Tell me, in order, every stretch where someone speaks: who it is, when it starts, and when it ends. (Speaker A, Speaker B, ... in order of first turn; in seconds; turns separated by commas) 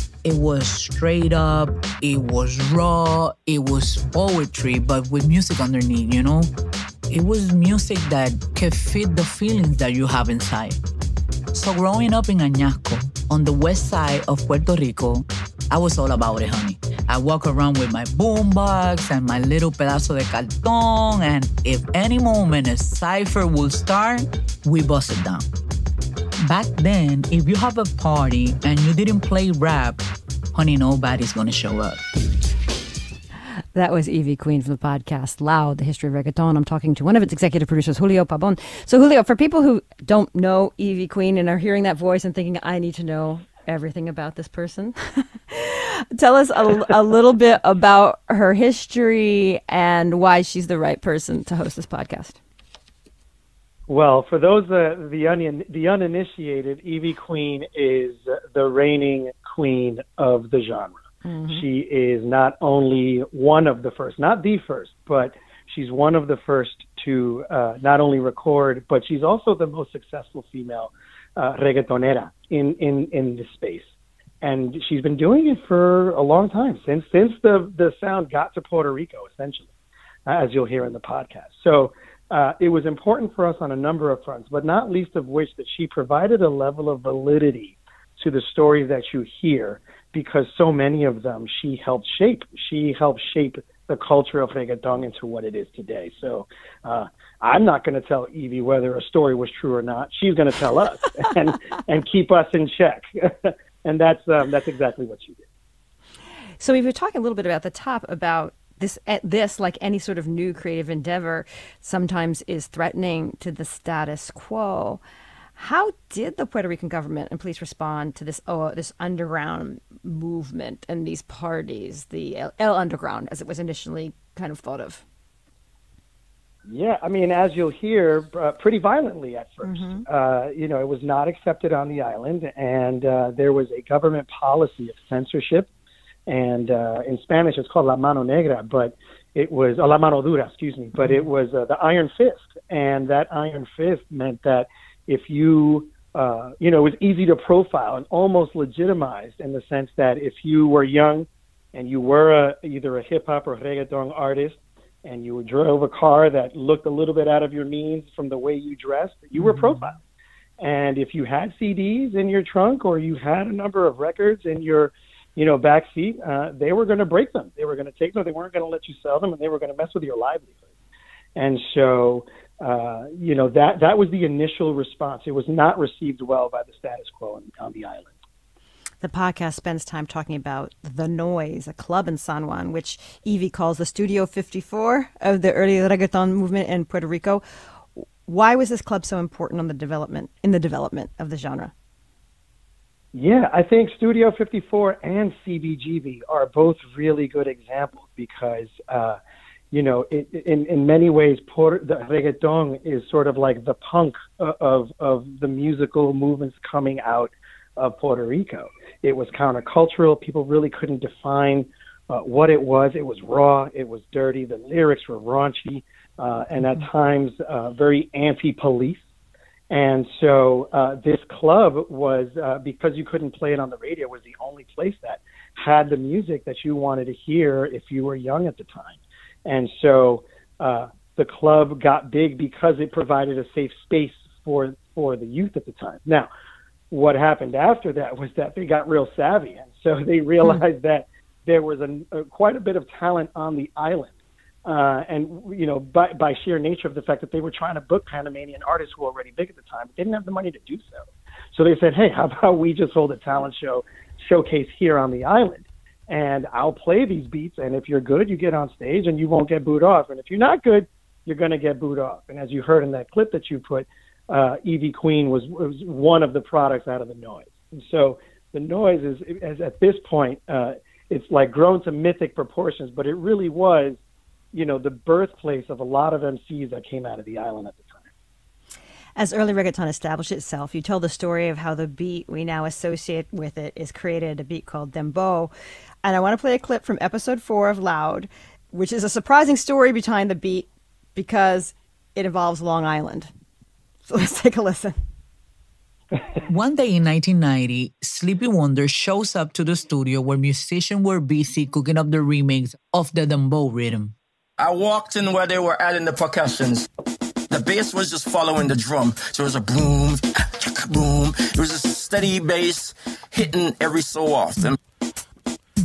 Speaker A: 0.2-6.5, Speaker A: 7.1-10.8, Speaker A: 11.5-25.5, Speaker A: 26.4-32.0, Speaker B: 33.8-52.4, Speaker C: 53.9-73.9, Speaker B: 61.3-61.6, Speaker C: 74.4-79.7, Speaker C: 80.3-105.4, Speaker B: 106.6-115.0, Speaker B: 115.6-125.0, Speaker C: 126.7-135.7, Speaker B: 129.6-130.0, Speaker C: 136.3-160.0, Speaker C: 160.6-170.5, Speaker C: 171.4-178.1, Speaker B: 179.0-187.4, Speaker B: 188.3-191.7, Speaker C: 193.1-199.2, Speaker C: 199.7-219.0, Speaker C: 219.7-236.3, Speaker C: 236.9-244.1, Speaker C: 244.7-274.0, Speaker C: 274.5-278.1, Speaker B: 279.2-285.5, Speaker B: 286.0-293.3, Speaker B: 294.1-295.0, Speaker A: 296.4-304.1, Speaker D: 304.6-306.9, Speaker D: 307.5-314.8